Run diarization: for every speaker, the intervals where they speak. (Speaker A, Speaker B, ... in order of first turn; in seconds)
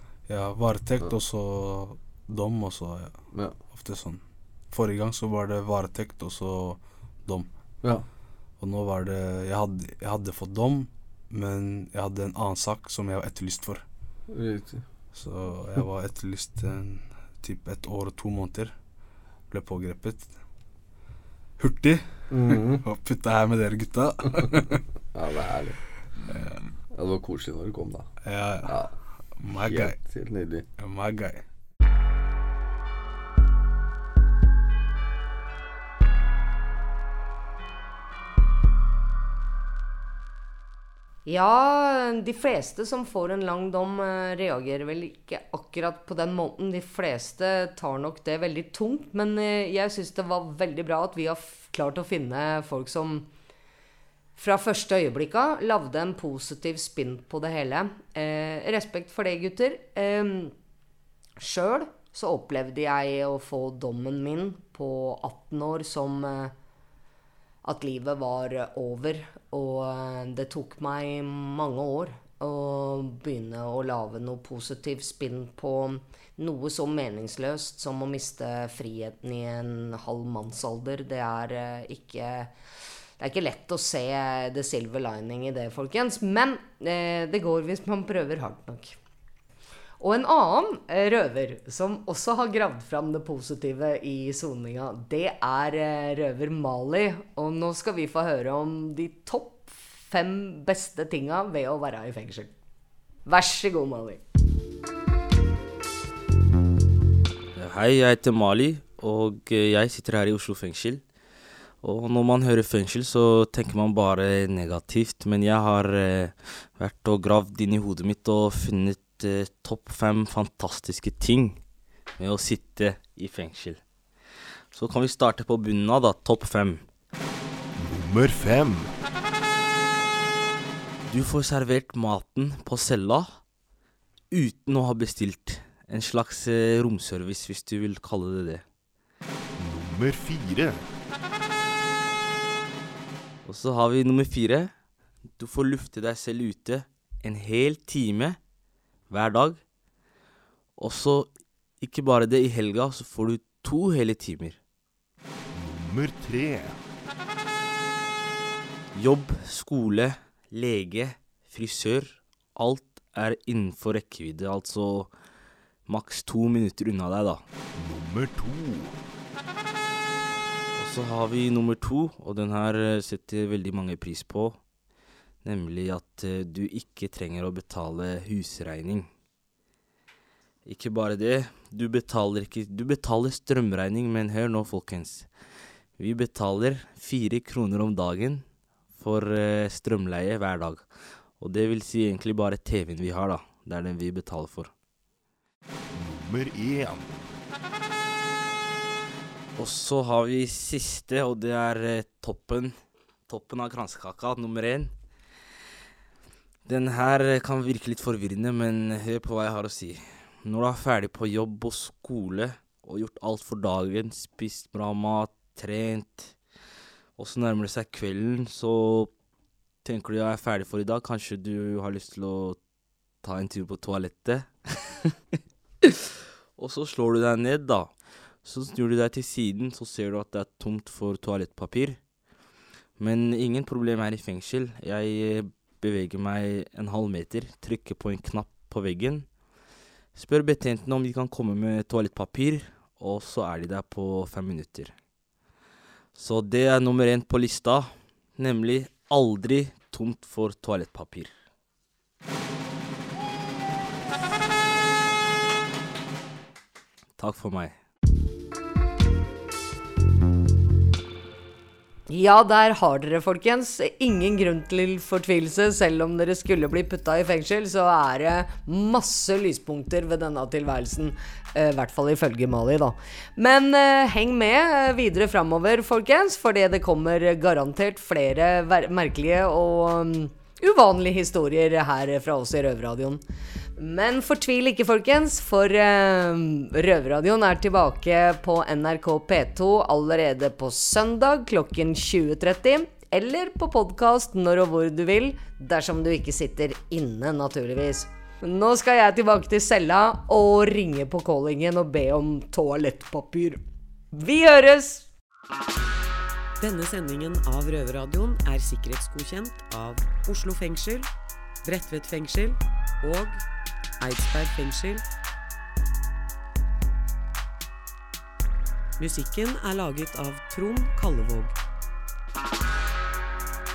Speaker A: 0.3-3.1, 3.7-7.5, 8.6-13.8, 15.1-18.8, 19.5-20.3, 21.6-24.8, 26.3-26.6, 28.2-28.8, 29.4-30.0, 30.8-31.4
Speaker B: 3.3-3.6, 14.3-14.8, 22.3-22.8, 25.1-25.8, 26.9-28.1, 28.7-28.9, 29.6-30.7
Speaker C: 41.3-53.3, 54.4-60.5, 61.4-66.5, 67.6-82.5, 83.2-89.0, 90.0-102.5, 103.3-104.2, 262.1-283.2, 283.8-305.1
Speaker D: 107.6-111.0, 111.8-121.6, 122.2-123.8, 124.7-126.8, 131.1-133.4, 134.3-138.6, 143.5-144.7, 145.4-148.4, 149.1-149.6, 150.8-154.6, 159.0-165.1, 165.9-167.4, 170.8-174.6, 175.4-179.1, 180.7-185.3, 186.0-188.4, 189.0-190.9, 191.4-194.7, 199.6-202.8, 203.3-204.9, 206.7-216.3, 217.2-219.1, 219.8-222.6, 223.2-224.5, 226.6-232.0, 233.0-239.3, 240.2-244.9, 246.2-251.3, 257.2-257.8
Speaker E: 127.8-128.9, 139.6-140.9, 155.5-156.8, 167.8-169.0, 195.9-197.2
Speaker F: 306.6-311.1, 311.6-313.4, 314.0-315.0, 319.0-321.5